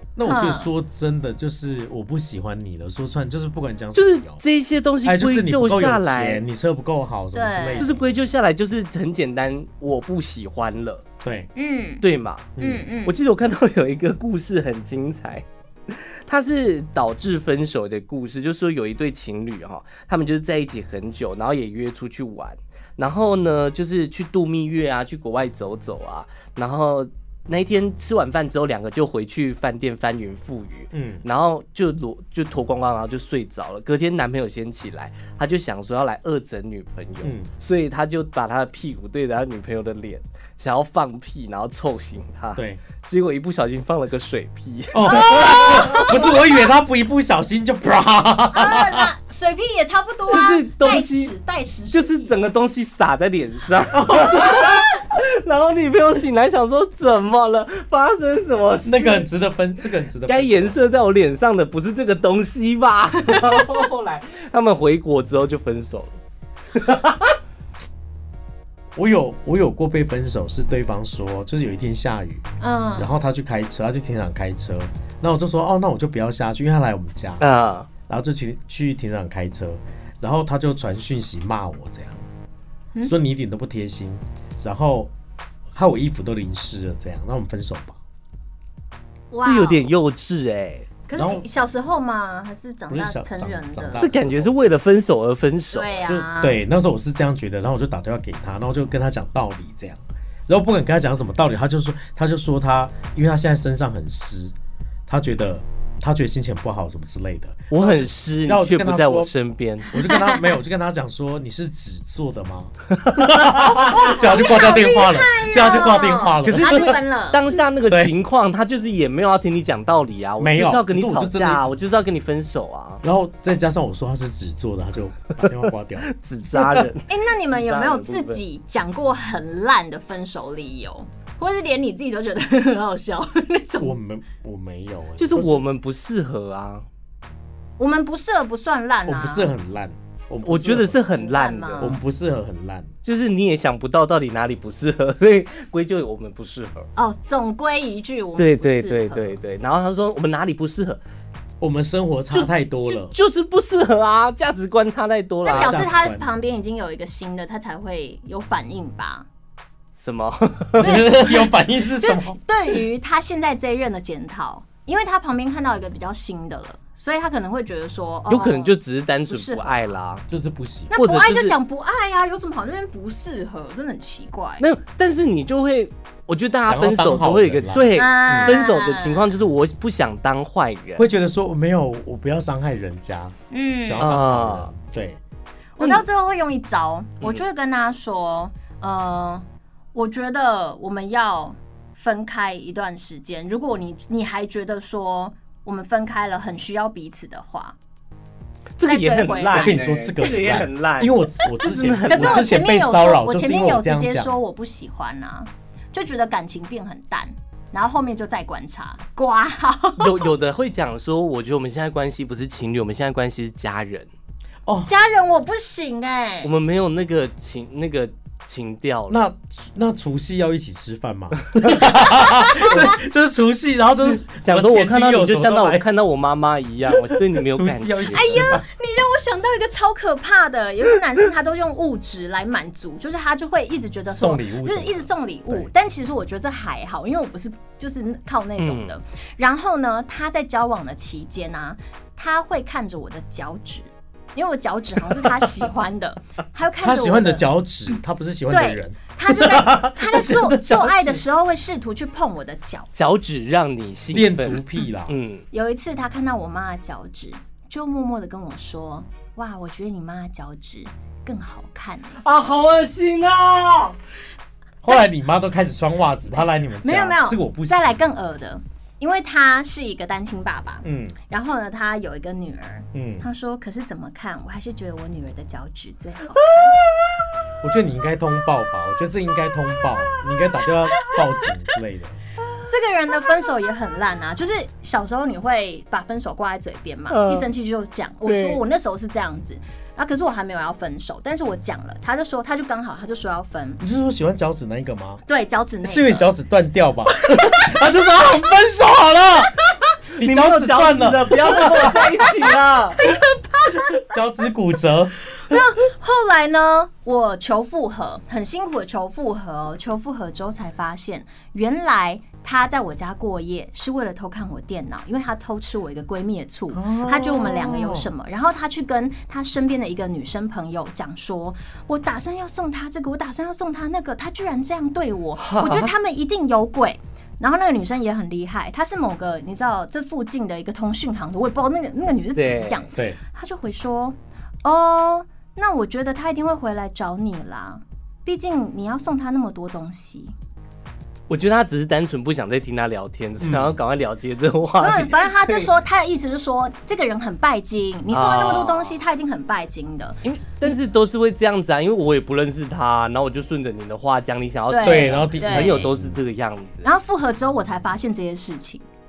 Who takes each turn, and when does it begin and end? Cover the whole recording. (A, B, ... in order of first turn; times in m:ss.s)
0:00.2-0:04.4 A
0:00.2-0:00.7 B
0:04.0-0:06.4 C
0:05.0-0:08.0 A
0:07.3-0:07.9 B
0:07.8-0:11.0 C
0:11.2-0:11.5 A
0:11.6-0:12.0 B
0:12.0-0:46.2 C
0:12.6-0:12.9 A
0:12.6-0:13.1 B
0:30.9-0:31.2 A
0:37.2-0:37.5 A
0:42.6-0:42.8 A
0:44.9-0:49.1 A
0:45.1-0:46.6 B
0:48.5-0:52.4 B
0:50.3-0:51.3 C
0:51.9-0:59.3 C
0:53.9-0:54.8 A
0:58.8-1:00.8 A
1:00.3-1:06.2 C
1:03.3-1:03.6 B
1:06.7-1:07.4 C
1:09.0-1:12.4 A
1:12.6-1:13.1 B
1:13.0-1:17.5 A
1:17.4-1:17.9 C
1:18.1-1:22.3 A
1:23.0-1:25.1 A
1:25.7-1:28.0 A
1:29.3-1:29.9 B
1:29.4-1:30.9 C
1:31.1-1:34.1 B
1:31.1-1:31.4 A
1:32.9-1:34.5 A
1:34.0-1:36.0 C
1:35.7-1:36.6 B
1:36.1-1:44.5 A
1:45.1-1:49.3 A
1:47.7-1:49.9 C
1:49.9-1:57.0 A
1:50.0-1:50.5 B
1:53.1-1:53.8 C
1:53.9-1:57.5 B
1:56.4-2:03.0 C
2:00.4-2:01.7 A
2:03.0-2:06.9 A
2:06.0-2:08.4 C
2:07.1-2:14.0 B
2:13.8-2:15.6 A
2:15.2-2:16.9 C
2:17.8-2:19.5 B
2:19.1-2:21.0 A
2:20.4-2:22.0 C
2:21.1-2:22.0 B
2:21.8-2:22.9 A
2:23.0-2:26.9 C
2:27.0-2:29.4 B
2:28.4-2:31.0 C
2:31.6-2:33.1 A
2:32.3-2:36.0 C
2:35.4-2:39.3 B
2:35.5-2:36.3 A
2:40.0-2:41.1 C
2:40.8-2:42.4 A
2:40.8-2:48.7 B
2:48.3-2:50.2 C
2:49.3-2:50.0 B
2:50.3-2:50.9 A
2:50.9-2:54.6 B
2:50.9-2:51.6 C
2:54.6-3:01.1 C
2:56.7-2:58.6 A
2:58.0-2:59.2 B
3:01.0-3:05.2 A
3:03.5-3:04.1 B
3:04.0-3:04.7 C
3:05.8-3:17.8 B
3:05.8-3:06.0 C
3:18.8-3:22.6 C
3:18.8-3:19.8 B
3:19.5-3:24.4 A
3:22.1-3:30.3 B
3:30.0-3:34.1 C
3:34.9-3:36.5 B
3:36.4-3:39.2 C
3:39.1-3:45.8 A
3:41.6-3:41.9 C
3:42.1-3:42.8 B
3:44.3-3:48.6 C
3:46.9-3:48.6 A
3:48.1-4:07.5 B
3:54.1-3:55.7 A
3:58.6-3:58.9 C
4:06.8-4:11.2 A
4:08.5-4:12.9 B
4:13.0-4:15.5 C
4:14.1-4:15.2 A
4:15.5-4:22.2 B
4:22.2-4:24.0 C
4:24.8-4:28.0 A
4:26.8-4:36.8 B
4:30.8-4:31.2 A
4:32.9-4:33.3 A
4:36.8-4:37.0 C
4:37.6-4:42.2 A
4:42.7-4:53.8 B
4:47.1-4:47.5 C
4:48.2-4:48.6 C
4:53.8-4:55.2 A
4:55.3-4:56.3 B
4:55.8-4:59.5 A
4:57.2-4:57.7 B
5:00.2-5:02.1 A
5:00.2-5:03.0 C
5:03.0-5:04.1 B
5:03.7-5:05.1 A
5:05.3-5:40.3 B
5:16.7-5:18.1 A
5:25.4-5:25.9 C
5:32.4-5:32.9 C
5:41.3-5:45.7 C
5:43.4-5:43.8 A
5:44.8-5:50.2 B
5:48.1-5:49.0 C
5:50.2-5:56.9 C
5:54.7-5:55.9 B
5:54.8-5:56.2 A
5:56.8-5:58.8 B